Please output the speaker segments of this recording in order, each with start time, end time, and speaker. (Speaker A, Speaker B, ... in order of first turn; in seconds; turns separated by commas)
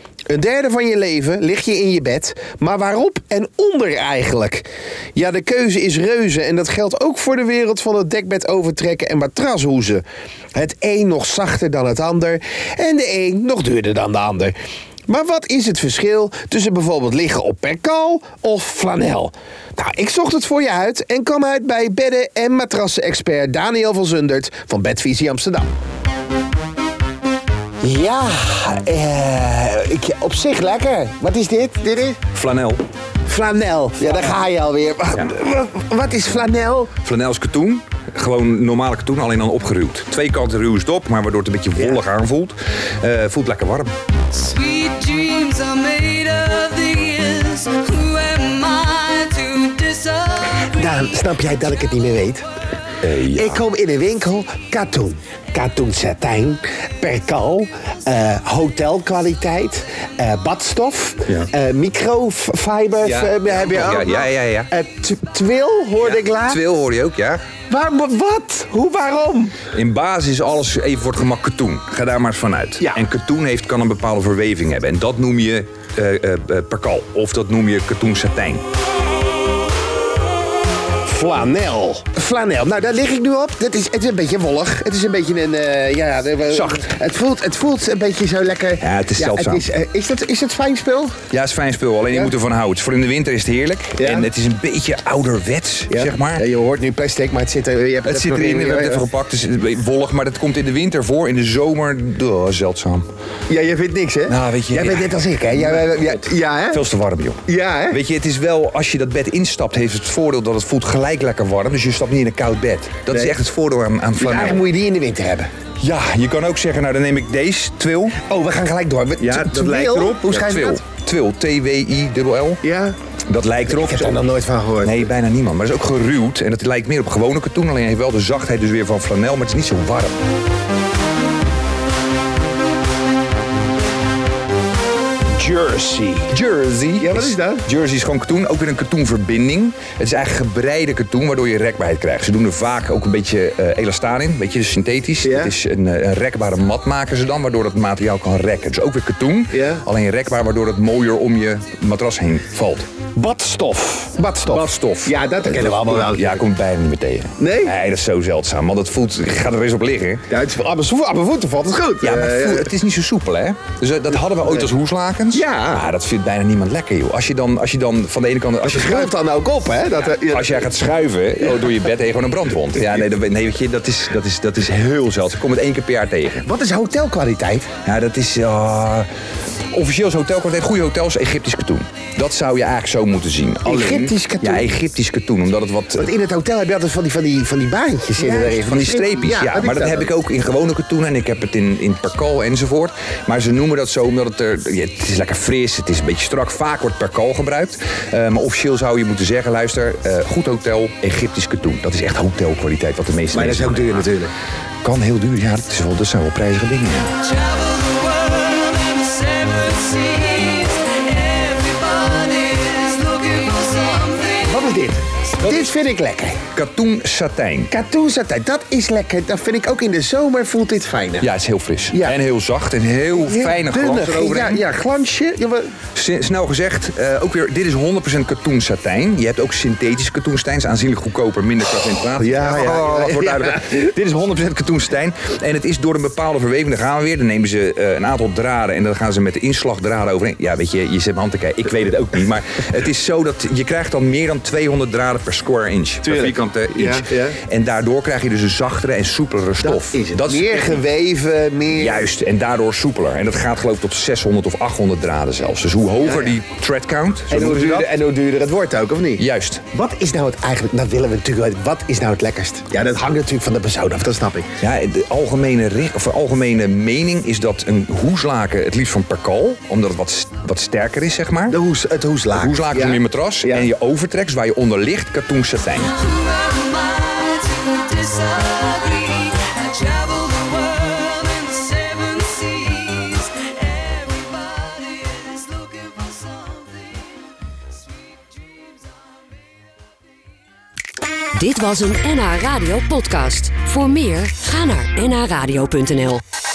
Speaker A: 0.3-14.6, Speaker A: 15.1-25.7, Speaker A: 27.8-32.2, Speaker B: 32.3-32.8, Speaker A: 33.2-36.9, Speaker B: 37.0-43.9, Speaker C: 44.3-50.6, Speaker A: 50.6-52.4, Speaker B: 53.0-53.6, Speaker A: 53.3-66.6, Speaker B: 63.0-64.7, Speaker B: 66.0-67.4, Speaker A: 67.7-69.6, Speaker B: 69.7-78.6, Speaker A: 81.0-91.2, Speaker B: 86.5-86.9, Speaker B: 88.8-89.7, Speaker B: 91.3-96.4, Speaker A: 94.0-94.3, Speaker A: 95.9-99.0, Speaker B: 98.0-103.0, Speaker A: 103.5-106.8, Speaker B: 104.3-114.6, Speaker A: 107.5-108.0, Speaker A: 114.2-115.5, Speaker B: 115.8-118.2, Speaker A: 118.2-120.8, Speaker B: 119.2-122.6, Speaker A: 122.6-123.0, Speaker B: 123.3-124.2, Speaker A: 123.7-125.1, Speaker B: 124.8-130.2, Speaker A: 135.4-136.3, Speaker B: 136.3-152.9, Speaker A: 137.0-137.6, Speaker A: 145.2-145.5, Speaker A: 149.5-149.8, Speaker A: 153.1-156.4, Speaker B: 154.4-160.3, Speaker A: 157.4-157.7, Speaker A: 160.3-162.7, Speaker B: 162.0-169.2, Speaker A: 165.3-165.8, Speaker A: 168.6-170.7, Speaker B: 170.3-176.5, Speaker A: 176.4-177.7, Speaker B: 177.8-179.1, Speaker B: 179.7-186.1, Speaker A: 183.6-184.7, Speaker A: 186.0-190.1, Speaker B: 188.2-204.1, Speaker A: 203.3-204.3, Speaker B: 204.8-207.3, Speaker C: 207.3-214.5, Speaker A: 214.4-216.4, Speaker B: 216.5-217.7, Speaker A: 217.7-221.3, Speaker B: 221.2-224.6, Speaker A: 223.2-225.8, Speaker B: 225.9-250.8, Speaker A: 232.2-233.7, Speaker A: 246.0-247.3, Speaker A: 249.6-252.1, Speaker B: 251.7-258.0, Speaker A: 256.0-256.3, Speaker A: 257.3-259.2, Speaker B: 259.2-259.7, Speaker A: 259.7-264.5, Speaker B: 264.6-271.6, Speaker A: 271.5-273.7, Speaker B: 272.3-276.1, Speaker C: 276.0-287.2, Speaker D: 291.3-296.2